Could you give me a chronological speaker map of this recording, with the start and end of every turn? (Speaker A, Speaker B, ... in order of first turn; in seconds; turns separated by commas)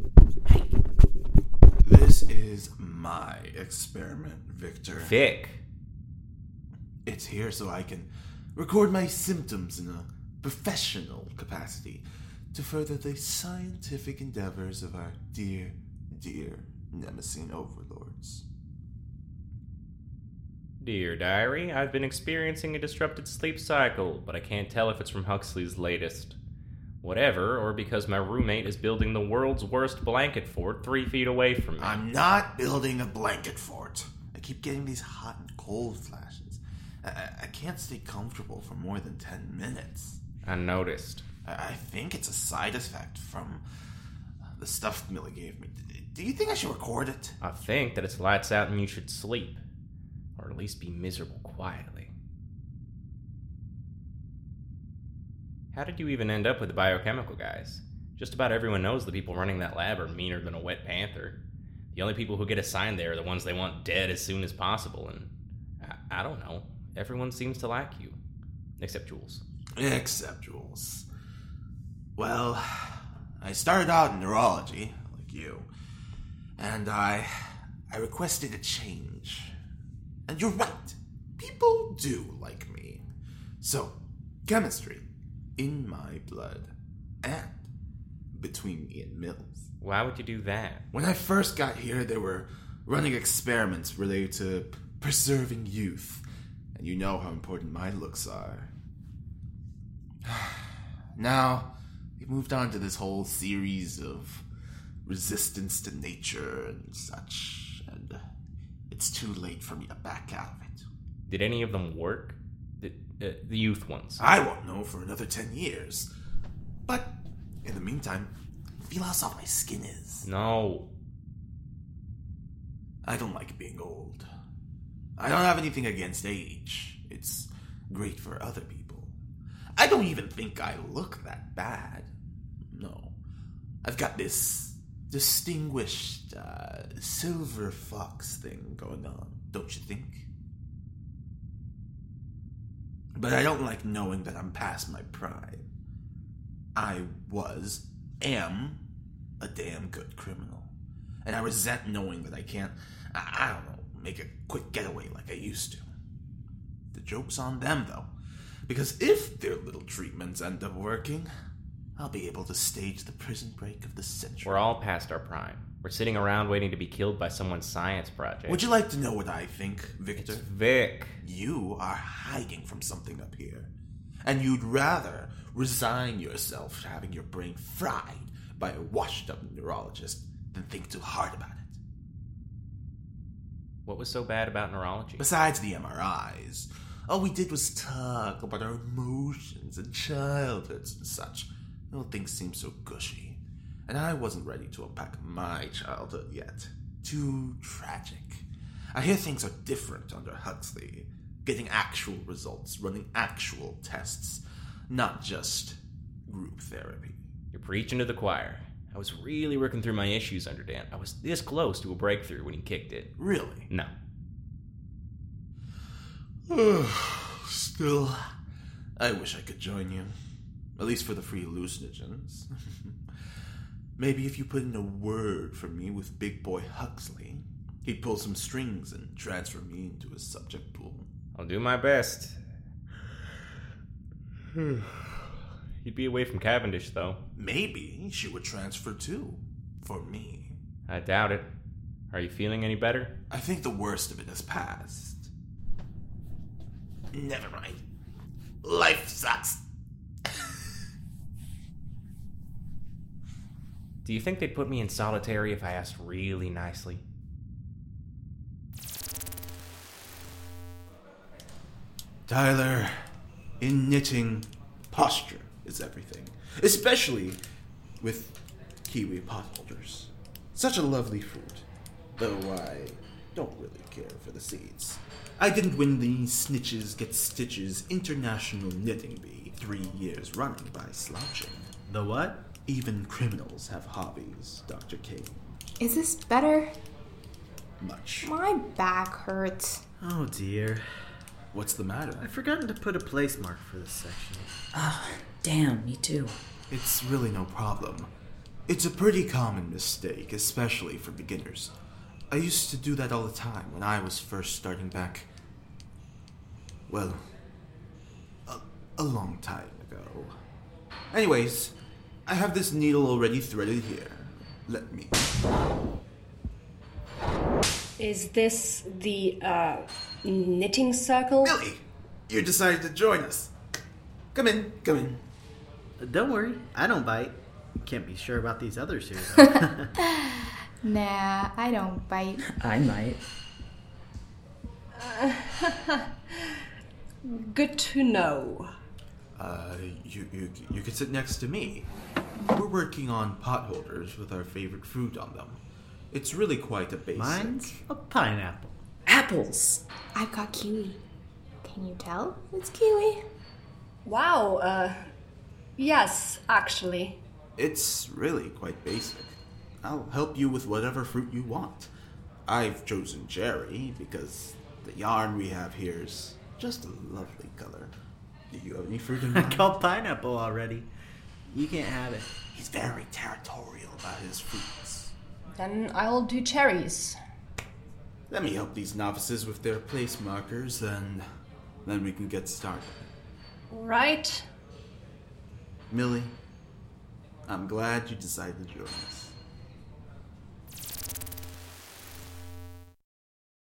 Speaker A: 1.8-5.1, Speaker B: 5.0-5.6, Speaker A: 7.0-18.4, Speaker B: 20.8-26.4, Speaker B: 27.0-32.0, Speaker A: 31.8-40.2, Speaker B: 40.4-41.2, Speaker A: 41.4-43.6, Speaker A: 44.4-47.4, Speaker B: 47.4-49.6, Speaker B: 50.4-52.1, Speaker B: 55.7-61.4, Speaker B: 61.9-65.3, Speaker B: 65.8-68.2, Speaker B: 68.8-69.4, Speaker A: 69.8-71.0, Speaker A: 72.2-75.7, Speaker A: 76.6-79.5, Speaker A: 80.3-83.1, Speaker A: 83.6-87.7, Speaker A: 88.3-89.7, Speaker B: 89.8-90.8, Speaker A: 90.9-96.2, Speaker A: 96.8-98.7, Speaker A: 100.2-104.4, Speaker A: 105.0-108.2, Speaker A: 108.9-110.9, Speaker B: 111.3-114.2, Speaker A: 114.2-116.1, Speaker A: 116.8-120.3, Speaker B: 120.2-120.9, Speaker A: 123.0-124.3, Speaker A: 125.2-129.1, Speaker A: 129.8-132.1, Speaker A: 132.7-133.1, Speaker A: 133.8-140.3, Speaker A: 143.2-145.7, Speaker A: 146.8-148.8, Speaker A: 149.4-150.7, Speaker A: 151.2-155.8, Speaker A: 156.9-158.1, Speaker A: 158.7-161.3, Speaker A: 162.0-164.6, Speaker B: 164.4-168.6, Speaker A: 168.4-170.4, Speaker B: 170.2-171.2, Speaker A: 171.2-173.7, Speaker A: 174.2-181.8, Speaker B: 183.8-185.3, Speaker A: 185.2-207.2, Speaker B: 207.5-213.1, Speaker A: 213.2-213.7, Speaker A: 216.5-218.3, Speaker A: 219.0-220.1, Speaker A: 220.8-223.0, Speaker A: 224.0-231.1, Speaker B: 231.3-232.4, Speaker B: 234.5-237.2, Speaker A: 237.3-240.6, Speaker B: 240.9-241.5, Speaker B: 242.1-243.1, Speaker A: 243.3-245.3, Speaker A: 247.1-247.8, Speaker A: 248.6-249.6, Speaker A: 250.2-250.7, Speaker B: 254.0-257.0, Speaker A: 262.3-262.9, Speaker A: 263.6-267.4, Speaker A: 268.0-281.7, Speaker C: 281.9-282.4, Speaker A: 282.6-285.6, Speaker D: 285.8-286.8, Speaker A: 287.8-288.3, Speaker D: 288.2-289.8, Speaker C: 290.0-290.8, Speaker A: 291.5-292.3, Speaker C: 292.2-294.6, Speaker E: 294.7-296.4, Speaker A: 296.7-298.1, Speaker A: 298.7-301.7, Speaker A: 302.3-305.3, Speaker A: 306.9-307.3, Speaker A: 308.4-310.3, Speaker A: 311.1-311.7, Speaker A: 312.2-315.3, Speaker F: 318.0-321.5, Speaker A: 321.4-323.5, Speaker A: 324.3-325.2, Speaker C: 326.0-329.9, Speaker D: 330.0-332.4, Speaker E: 332.4-333.2, Speaker F: 334.9-336.6, Speaker F: 337.2-338.7, Speaker A: 339.3-345.6, Speaker A: 346.1-347.8, Speaker C: 347.1-348.8, Speaker E: 349.1-349.8, Speaker D: 350.1-351.0, Speaker D: 351.6-353.2, Speaker F: 354.0-355.1, Speaker F: 355.8-357.2, Speaker A: 357.6-361.9, Speaker A: 362.4-367.9, Speaker A: 368.5-369.7, Speaker C: 369.2-370.9, Speaker C: 371.5-372.4, Speaker A: 372.5-375.1, Speaker F: 375.6-377.1, Speaker A: 378.3-381.3, Speaker A: 381.8-383.1, Speaker F: 383.7-384.4, Speaker A: 385.9-386.4, Speaker A: 387.5-389.4